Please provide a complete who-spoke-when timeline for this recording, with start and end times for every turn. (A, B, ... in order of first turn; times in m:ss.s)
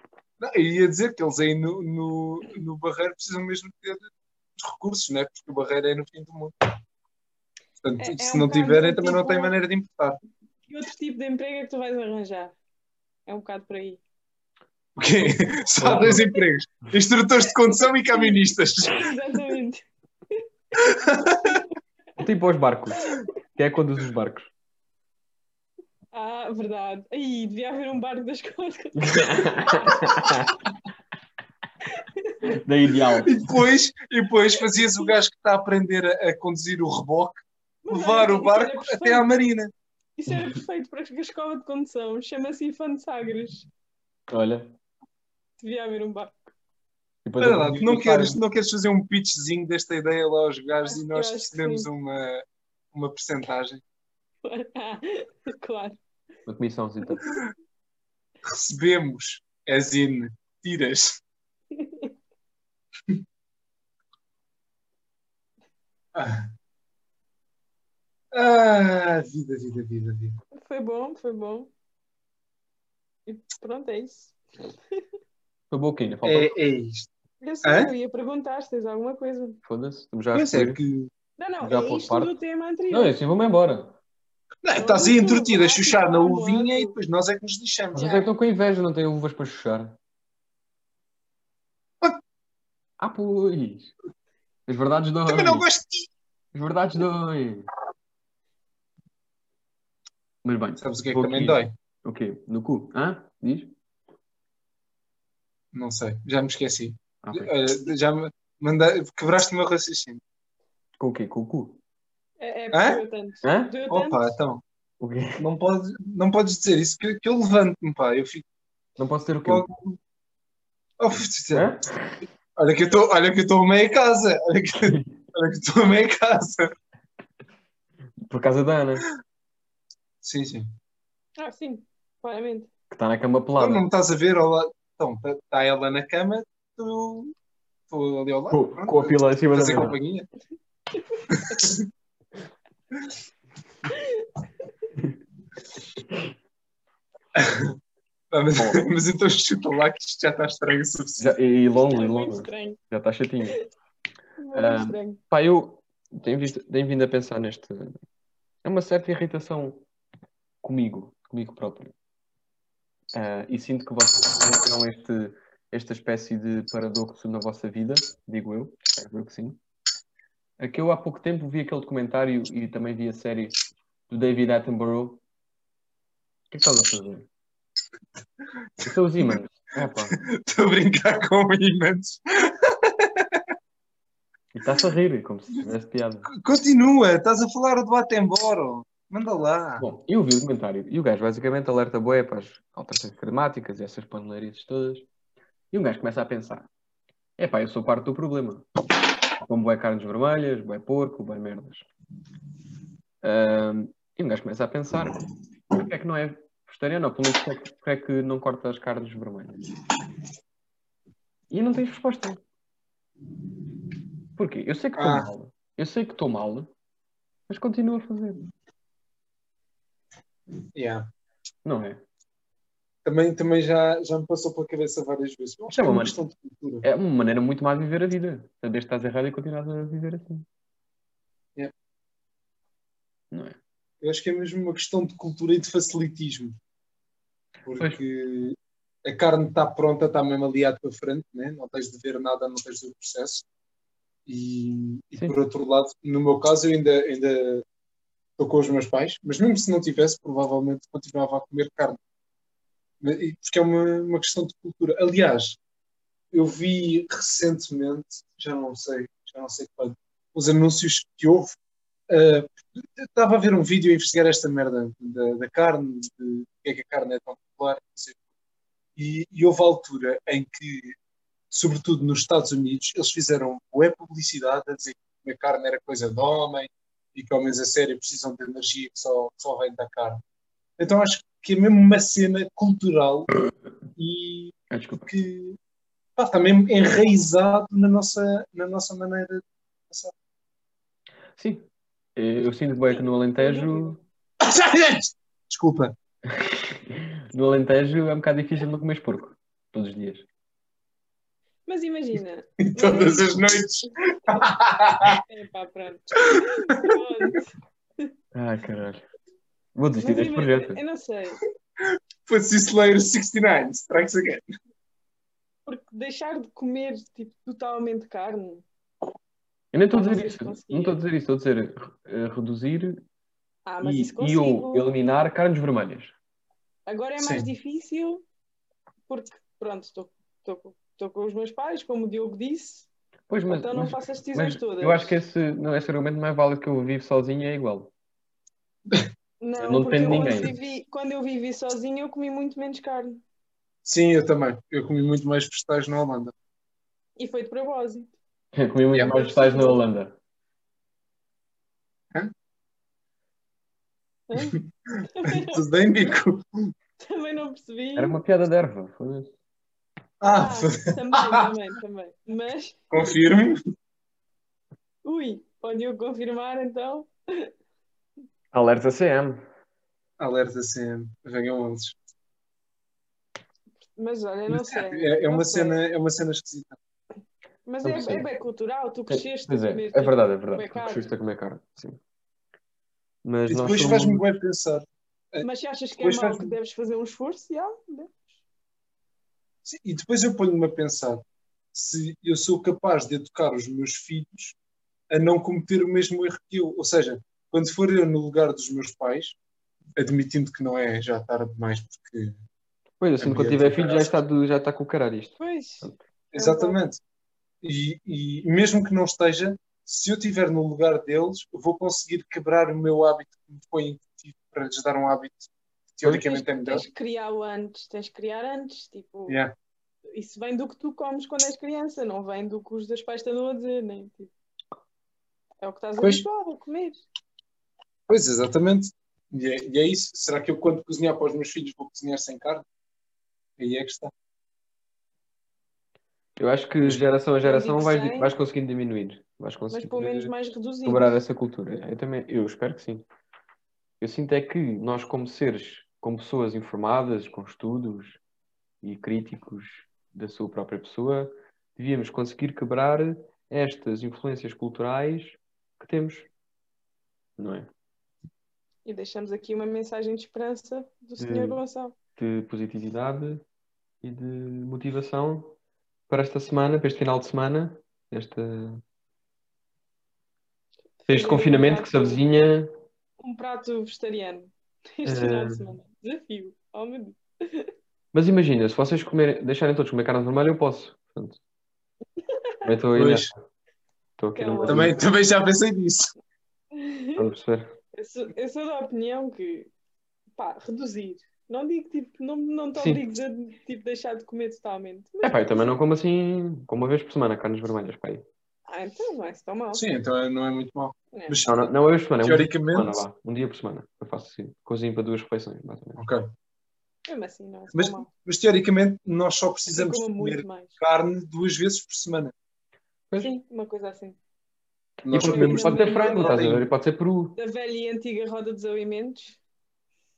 0:00.4-0:06.7 A
0:07.8-0:10.2 A
0:08.0-0:09.5 B
0:10.7-0:12.6 B
0:13.3-0:14.0 B
0:15.0-0:19.1 A
0:15.8-0:16.3 C
0:18.1-0:19.8 B
0:20.8-0:21.6 A
0:22.2-0:24.5 C
0:26.1-0:30.4 B
0:29.0-0:30.6 C
0:31.9-0:32.4 B
0:32.5-0:33.5 C
0:33.2-0:39.7 A
0:34.7-0:35.1 B
0:37.8-0:39.3 B
0:40.2-0:43.7 B
0:44.3-0:44.7 C
0:45.6-0:46.4 B
0:47.2-0:48.4 C
0:47.4-0:53.8 A
0:50.9-0:51.9 B
0:54.4-0:56.0 B
0:56.5-0:57.3 C
0:58.4-1:01.2 A
1:01.8-1:02.1 B
1:06.2-1:06.5 A
1:08.3-1:10.4 A
1:10.6-1:11.7 B
1:13.3-1:14.4 B
1:15.7-1:16.5 C
1:16.2-1:17.1 A
1:17.4-1:19.6 B
1:17.6-1:17.9 A
1:19.6-1:20.8 C
1:20.3-1:21.1 A
1:21.4-1:23.2 B
1:21.6-1:22.3 C
1:22.9-1:24.0 C
1:24.6-1:28.3 A
1:24.8-1:27.0 B
1:27.9-1:30.0 C
1:33.0-1:33.9 C
1:34.7-1:35.7 C
1:35.3-1:36.1 A
1:36.5-1:37.7 C
1:40.4-1:43.8 C
1:40.8-1:41.7 A
1:45.7-1:50.2 A
1:47.2-1:47.5 C
1:51.0-1:51.8 C
1:52.4-1:54.2 B
1:52.7-1:53.0 A
1:53.4-1:53.8 C
1:53.9-1:54.6 A
1:55.0-1:55.4 C
1:55.4-1:58.4 A
1:59.0-1:59.7 C
1:59.4-2:00.0 A
2:01.0-2:01.7 A
2:01.5-2:02.2 C
2:02.6-2:06.7 A
2:04.8-2:05.1 C
2:08.3-2:09.0 C
2:10.2-2:10.7 A
2:11.4-2:12.7 B
2:12.9-2:13.9 C
2:13.6-2:17.3 A
2:17.9-2:20.3 A
2:18.5-2:20.0 C
2:21.0-2:21.6 B
2:21.3-2:21.9 A
2:23.9-2:24.3 B
2:27.4-2:27.8 A
2:28.3-2:31.3 A
2:28.6-2:28.9 C
2:31.2-2:33.6 C
2:31.8-2:32.8 B
2:34.4-2:35.2 B
2:34.5-2:37.9 C
2:38.6-2:39.8 C
2:40.6-2:41.9 C
2:43.1-2:49.6 C
2:50.6-2:53.6 C
2:54.1-2:55.2 C
2:56.5-2:57.3 C
2:58.8-2:59.3 A
2:58.8-3:00.2 C
2:59.9-3:03.4 A
3:04.5-3:06.3 C
3:06.3-3:09.9 A
3:09.8-3:15.1 C
3:15.7-3:16.7 C
3:17.4-3:18.7 C
3:19.4-3:21.9 C
3:23.2-3:25.2 C
3:25.7-3:29.6 C
3:31.5-3:32.4 C
3:34.4-3:36.7 C
3:35.0-3:35.3 A
3:37.5-3:38.4 C
3:40.8-3:41.1 A
3:41.6-3:42.0 C
3:43.0-3:46.9 A
3:45.7-3:46.2 C
3:46.8-3:50.5 C
3:53.3-3:53.6 C
3:54.0-3:56.6 A
3:57.7-4:03.4 A
3:57.7-3:58.0 C
4:04.3-4:07.6 A
4:08.4-4:12.0 A
4:13.0-4:15.6 A
4:16.3-4:21.6 A
4:22.1-4:28.2 A
4:29.0-4:31.0 A
4:31.5-4:40.2 A
4:40.8-4:43.3 A
4:44.0-4:45.6 A
4:44.7-4:45.1 C
4:46.2-4:50.1 A
4:51.4-4:54.0 C
4:52.9-4:54.0 B
4:54.4-4:55.9 A
4:56.3-5:00.3 C
5:01.7-5:03.3 B
5:02.6-5:05.2 A
5:03.8-5:04.5 B
5:05.0-5:07.5 B
5:06.2-5:07.0 A
5:08.3-5:09.0 C
5:09.8-5:10.8 C
5:10.0-5:11.4 B
5:11.8-5:14.4 A
5:15.7-5:18.6 B
5:19.7-5:23.0 C
5:19.9-5:21.0 B
5:23.7-5:24.9 B
5:23.8-5:26.2 C
5:26.9-5:28.2 B
5:27.2-5:27.5 A
5:29.1-5:32.9 B
5:33.3-5:37.9 C
5:33.5-5:35.1 B
5:39.4-5:43.2 B
5:39.6-5:40.5 C
5:43.8-5:46.3 A
5:47.2-5:48.2 B
5:48.5-5:50.2 C
5:48.9-5:49.2 A
5:49.0-5:49.8 B
5:54.3-5:55.6 B
5:55.2-5:56.7 A
5:57.0-5:58.2 B
5:58.0-5:59.3 C
6:00.2-6:01.5 A
6:00.2-6:02.8 B
6:02.9-6:03.6 A
6:05.0-6:07.5 B
6:08.5-6:09.4 C
6:10.2-6:12.0 A
6:14.0-6:15.8 B
6:14.5-6:16.8 A
6:17.7-6:21.1 B
6:17.8-6:18.3 C
6:19.1-6:22.0 C
6:23.2-6:24.2 C
6:23.5-6:25.5 A
6:25.4-6:28.3 B
6:26.0-6:26.6 A
6:29.6-6:31.2 A
6:31.7-6:34.6 A
6:35.1-6:39.4 A
6:40.0-6:42.4 A
6:43.0-6:46.0 C
6:43.2-6:44.2 A
6:45.4-6:46.8 B
6:46.3-6:47.0 A
6:47.6-6:56.8 A
6:56.1-6:59.4 B
7:00.1-7:04.3 B
7:05.6-7:07.0 B
7:06.0-7:06.2 A
7:08.1-7:12.6 A
7:13.6-7:14.1 A
7:16.4-7:20.3 C
7:17.4-7:18.3 B
7:19.7-7:21.2 B
7:20.8-7:23.0 C
7:24.0-7:28.2 C
7:28.8-7:36.3 C
7:37.4-7:37.7 C
7:38.9-7:42.0 B
7:41.2-7:41.6 C
7:42.2-7:43.4 C
7:44.0-7:45.6 C
7:46.1-7:48.8 C
7:51.0-7:52.2 B
7:51.1-7:52.7 C
7:53.2-7:57.7 B
7:55.0-7:55.6 C
7:58.1-8:01.4 C
8:02.3-8:02.6 B
8:02.6-8:03.3 C
8:03.0-8:03.3 A
8:04.2-8:05.0 C
8:04.3-8:05.0 B
8:04.7-8:06.1 A
8:06.7-8:07.3 B
8:07.2-8:07.7 C
8:07.9-8:09.7 B
8:10.4-8:15.8 B
8:15.2-8:18.2 C
8:18.7-8:19.8 B
8:19.7-8:21.7 A
8:21.4-8:26.0 C
8:22.2-8:23.0 A
8:26.0-8:26.3 A
8:27.1-8:28.1 B
8:27.7-8:32.3 A
8:29.7-8:30.8 B
8:33.2-8:34.2 B
8:35.1-8:36.7 A
8:35.1-8:37.4 C
8:35.2-8:36.5 B
8:37.4-8:39.4 B